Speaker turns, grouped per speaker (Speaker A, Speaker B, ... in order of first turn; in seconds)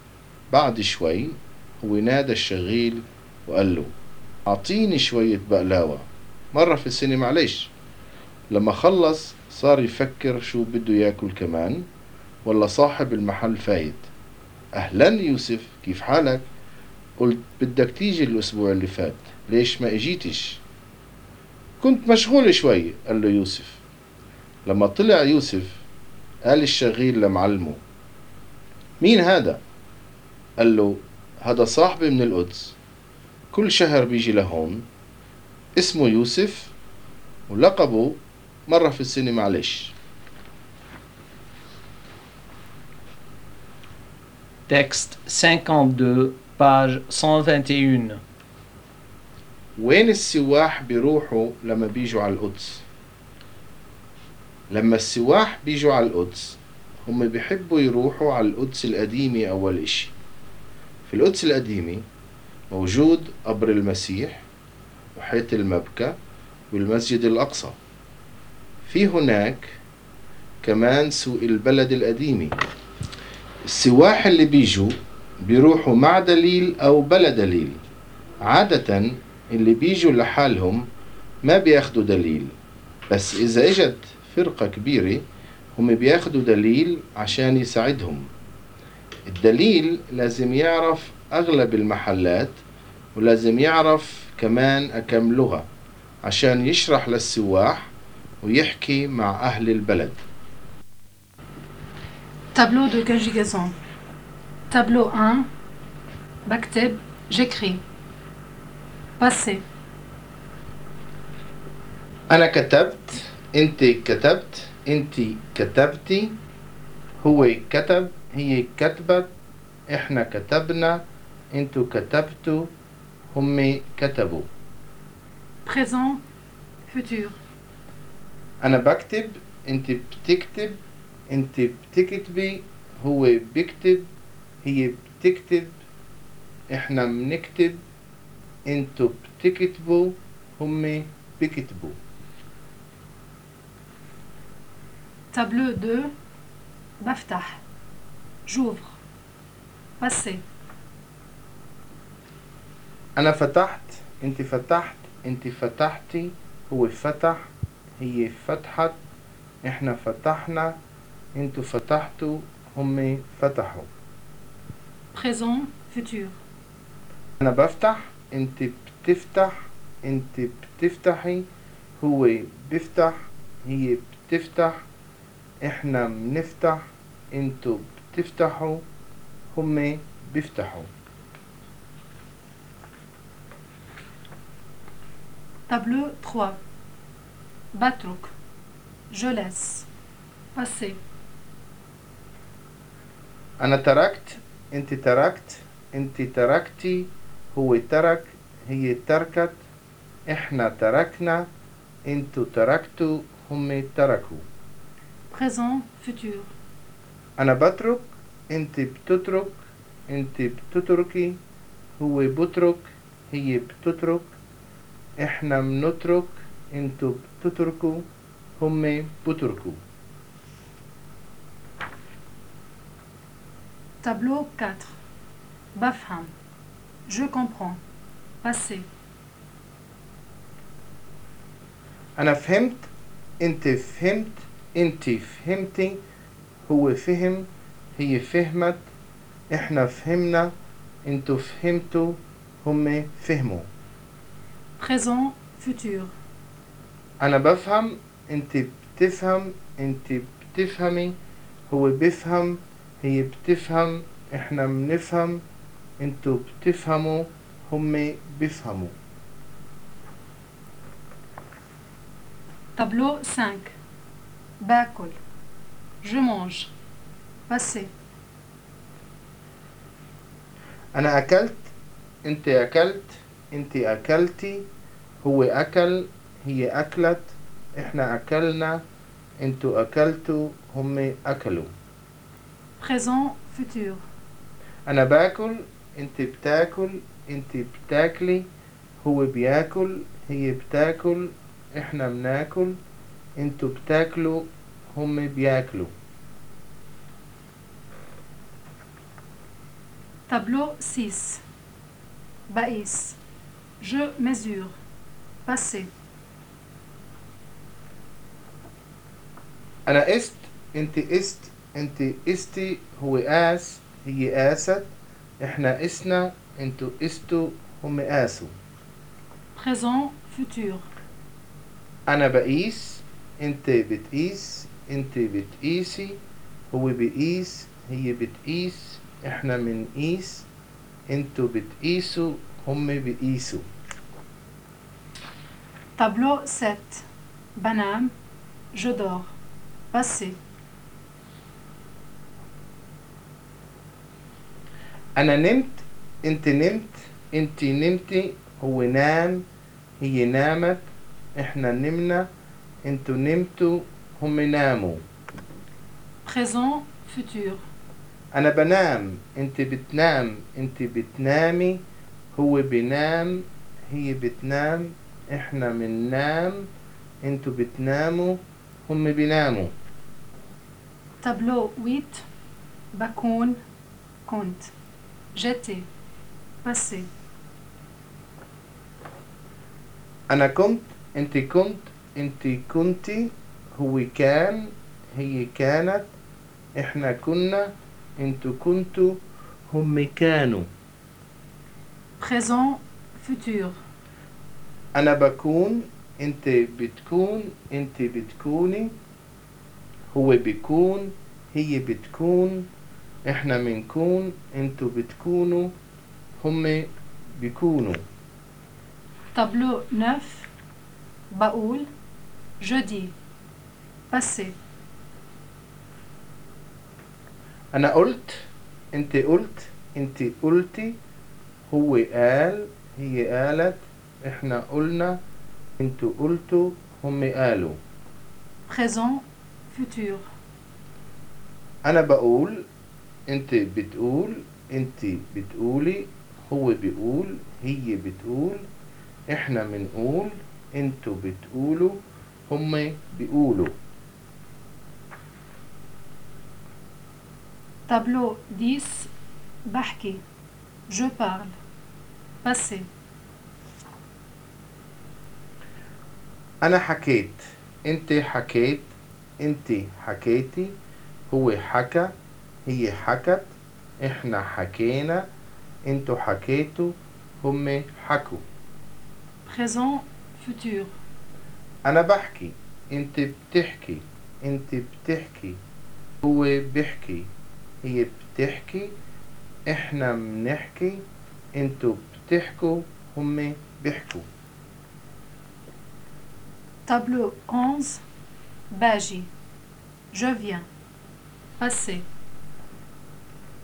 Speaker A: 0.5-3.9, 4.5-7.7, 8.5-11.9, 12.4-14.0, 14.7-16.4, 17.2-20.6, 21.8-23.8, 24.6-25.8, 26.4-27.8, 29.0-29.6, 30.6-32.8, 33.5-34.9, 35.8-36.7, 37.5-39.9, 49.8-52.8, 54.7-60.1, 61.0-62.0, 62.7-64.4, 65.1-66.1, 66.7-67.8, 68.8-69.8, 70.6-72.5, 73.6-77.8, 78.4-80.8, 81.4-82.5, 83.1-85.2, 85.8-88.3, 89.3-92.6, 93.1-95.7, 96.2-97.9, 98.4-100.2, 112.3-116.4, 117.2-119.3, 119.9-122.7, 123.3-124.5, 128.6-134.1, 134.6-135.7, 136.7-137.8, 138.7-142.0, 153.2-157.4, 158.0-158.9, 159.6-160.8, 161.3-163.9, 167.4-171.4, 172.0-174.7, 175.6-178.8, 179.5-180.9, 193.6-199.6, 200.3-201.5, 202.0-204.4, 207.4-211.4, 212.0-214.3, 215.2-218.1, 218.6-219.8, 232.2-232.9, 233.4-236.0, 236.7-238.8, 239.5-240.5, 241.0-243.7, 247.2-251.1, 251.7-255.4, 256.0-258.9, 270.9-271.7, 272.2-274.7, 275.2-278.8, 279.4-281.7, 284.9-288.5, 289.0-292.8, 293.4-295.9, 309.9-318.5, 322.1-326.2, 326.7-330.4, 331.1-333.6, 345.1-349.4, 350.0-352.3, 352.8-355.0, 358.3-361.8, 362.3-366.7, 367.2-369.7, 380.3-386.1, 386.7-390.7, 394.9-398.9, 400.1-402.7, 403.2-405.7, 406.4-408.0, 417.7-421.0, 421.7-425.2, 425.8-427.8, 431.8-432.6, 433.3-438.6, 439.3-442.0, 442.5-443.7, 456.6-460.8, 461.3-462.1, 462.6-465.3, 465.8-468.4, 471.8-475.6, 476.2-477.3, 477.8-478.9, 479.7-481.0, 481.5-484.2
Speaker B: 44.7-48.2
Speaker C: 102.5-103.7, 104.7-105.5, 106.5-107.8, 109.2-109.6, 125.6-126.2, 126.9-127.3, 145.3-146.1, 147.0-147.6, 148.5-149.0, 150.0-150.4, 165.1-166.3, 185.7-186.6, 187.7-188.3, 189.1-189.9, 190.5-191.0, 205.3-206.5, 224.0-224.9, 225.7-226.3, 227.1-227.8, 228.4-228.8, 244.8-246.1, 262.8-263.7, 264.6-265.2, 266.0-266.7, 267.5-267.9, 282.8-284.0, 300.3-301.4, 302.5-303.2, 303.8-304.7, 305.4-305.9, 319.5-320.8, 336.0-337.0, 337.5-338.1, 338.7-339.3, 339.9-340.4, 356.2-357.6, 371.2-372.2, 372.9-373.6, 374.2-374.7, 375.3-375.9, 376.6-377.1, 392.2-393.8, 409.3-410.5, 411.3-411.9, 412.6-413.1, 414.1-414.5, 428.7-430.2, 447.9-449.1, 449.6-450.2, 450.9-451.5, 452.4-452.9, 469.4-470.9, 486.9-488.0, 488.7-489.3, 490.1-490.7, 491.6-492.0